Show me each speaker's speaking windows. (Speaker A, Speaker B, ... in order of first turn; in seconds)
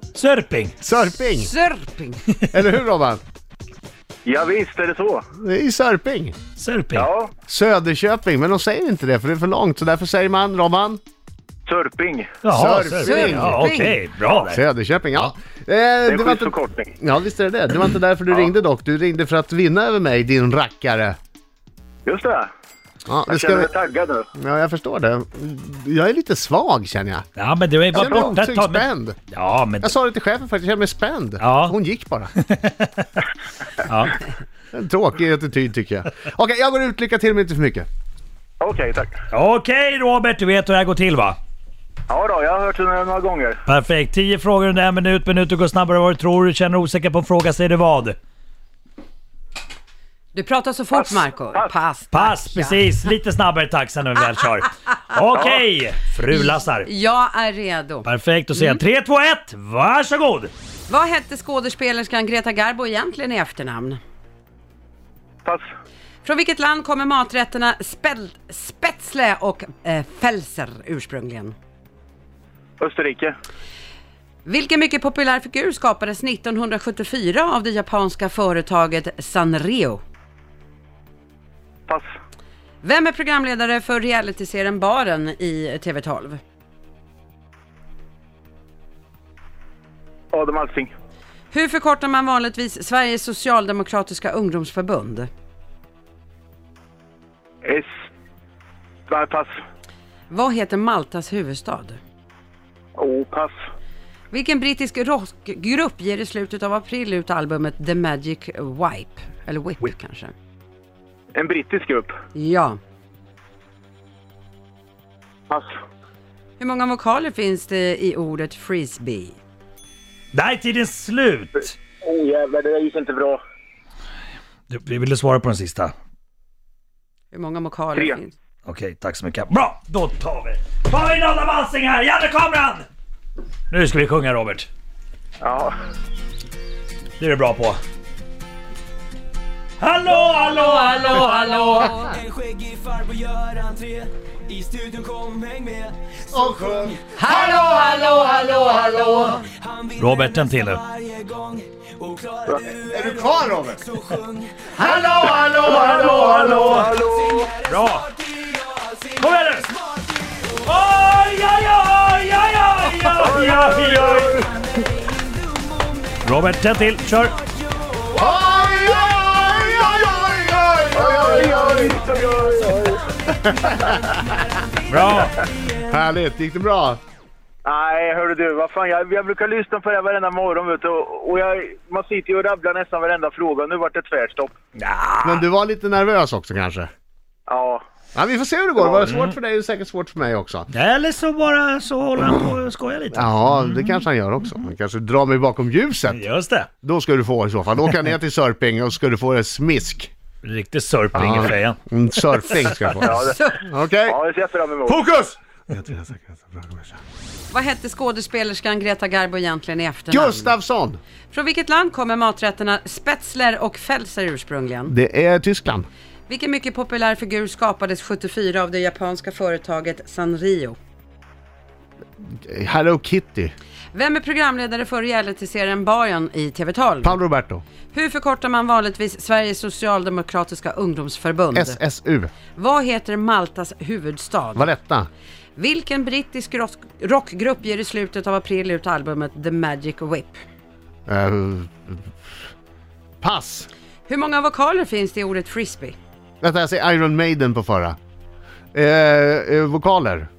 Speaker A: 0.1-0.8, 6.6-7.1, 12.4-14.6, 27.4-29.9, 31.4-31.7, 32.4-33.1, 33.8-34.2, 39.3-41.4, 43.6-48.2, 52.1-56.9, 58.0-60.5, 120.3-121.8, 124.7-125.9, 128.6-132.9, 133.7-134.7, 137.2-137.8, 139.8-142.0, 149.9-150.9, 155.7-156.9, 157.6-158.2, 159.2-159.7, 160.6-164.5, 166.2-167.4, 174.9-175.4, 184.8-185.4, 189.0-189.3, 190.7-194.0, 196.1-196.7, 200.4-201.8
Speaker B: 0.8-1.5, 2.5-3.2, 5.4-6.3, 7.5-11.0, 12.5-13.7, 14.4-21.1, 23.1-23.7, 24.4-27.2, 27.9-29.2, 29.8-32.3, 34.7-37.9, 146.3-149.4, 152.9-154.0, 154.7-156.9, 168.1-172.1, 173.3-174.2, 175.7-177.0, 185.2-186.9, 188.1-190.7, 193.1-196.2, 196.8-200.1, 201.1-204.2, 204.8-207.0, 210.1-211.0, 214.9-215.9, 222.2-223.5, 227.0-227.6, 231.5-232.3, 234.6-235.1, 241.1-242.1, 243.2-243.7, 246.4-247.9, 248.7-250.3
Speaker C: 1.3-2.2, 13.0-14.0, 50.3-52.8, 56.3-58.8, 60.9-64.0, 66.2-71.5, 74.4-80.0, 82.8-86.4, 91.5-95.3, 100.3-102.0, 104.3-110.3, 112.3-112.8, 116.6-119.4, 127.3-128.3, 140.5-142.1, 147.1-148.9, 203.2-203.6, 207.5-210.5, 211.3-214.9, 216.3-220.8, 223.9-227.2, 227.9-231.8, 232.5-234.7, 235.6-240.4, 244.1-245.9
Speaker D: 4.2-5.2, 6.9-7.3, 11.7-12.3, 16.1-16.9, 22.0-22.5, 23.3-24.2, 38.6-39.2, 42.1-43.6, 50.9-51.7, 55.3-55.6, 72.8-73.3, 90.3-90.9, 99.1-99.5, 103.0-103.5, 111.3-112.1, 122.0-123.4, 135.4-135.7, 152.5-152.8, 155.6-157.5, 163.2-164.5, 170.9-173.1, 177.6-184.5, 187.5-187.8, 202.9-203.5, 204.1-205.0
Speaker E: 142.8-143.9, 144.8-145.8